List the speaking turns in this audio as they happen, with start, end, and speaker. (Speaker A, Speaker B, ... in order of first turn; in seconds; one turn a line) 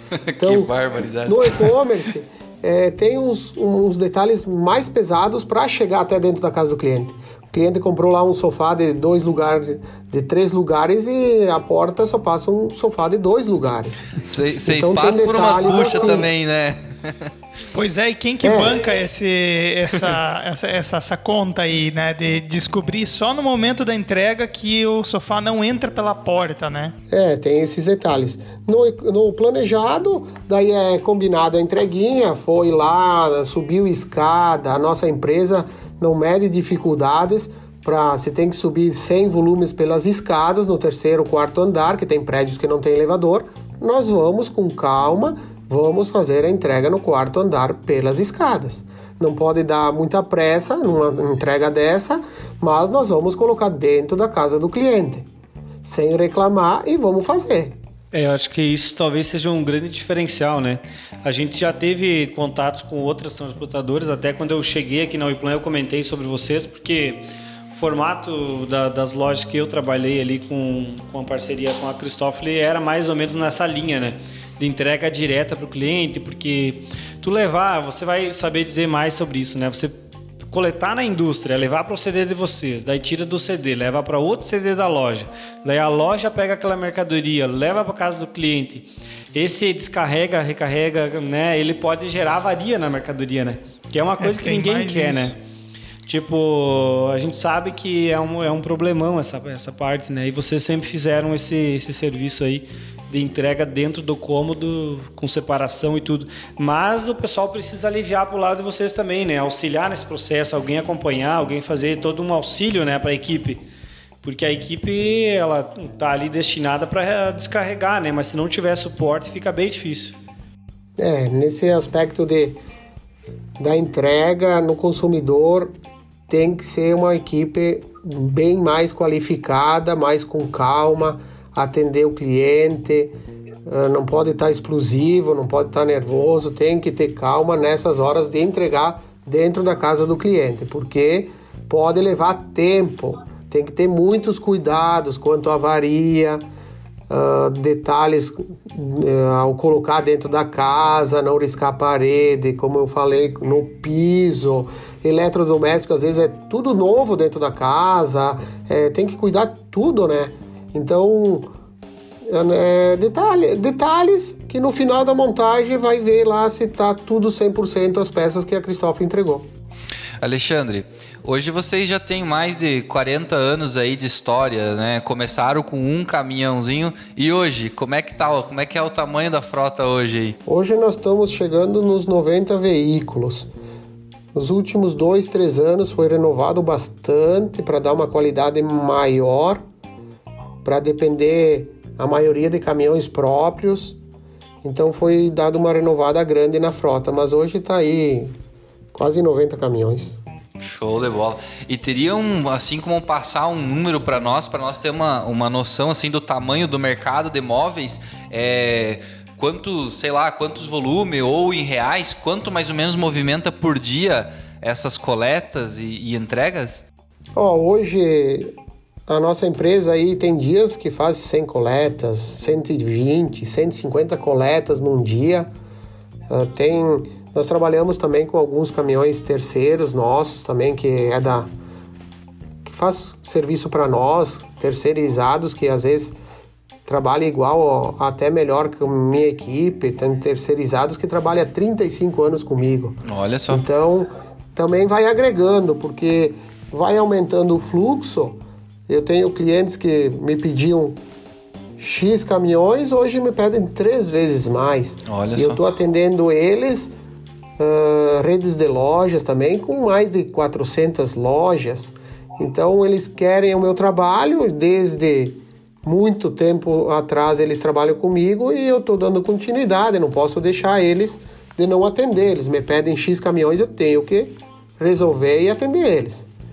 Speaker A: 0.2-1.7
Speaker B: 0.4-0.7
Speaker B: 1.2-16.3
Speaker A: 14.2-17.3
Speaker C: 17.7-26.9
Speaker B: 18.4-18.8
Speaker B: 27.1-55.3
Speaker B: 55.8-57.8
Speaker D: 58.1-95.4
Speaker C: 94.2-95.4
Speaker D: 96.1-113.6
Speaker D: 114.2-120.2
Speaker B: 121.0-122.6
Speaker B: 123.6-125.7
Speaker B: 126.3-133.1
Speaker B: 133.7-146.4
Speaker B: 147.1-161.5
Speaker B: 162.3-169.5
Speaker A: 170.2-180.4
Speaker B: 180.5-183.5
Speaker B: 184.3-189.6
Speaker B: 190.6-194.0
Speaker B: 194.6-198.3
Speaker B: 198.9-200.2
Speaker A: 200.6-216.8
Speaker B: 217.4-218.5
Speaker B: 219.1-225.5
Speaker B: 226.3-231.5
Speaker B: 232.6-236.2
Speaker B: 236.9-251.0
Speaker A: 243.1-243.6
Speaker B: 251.8-256.9
Speaker A: 255.1-255.6
Speaker B: 257.6-276.3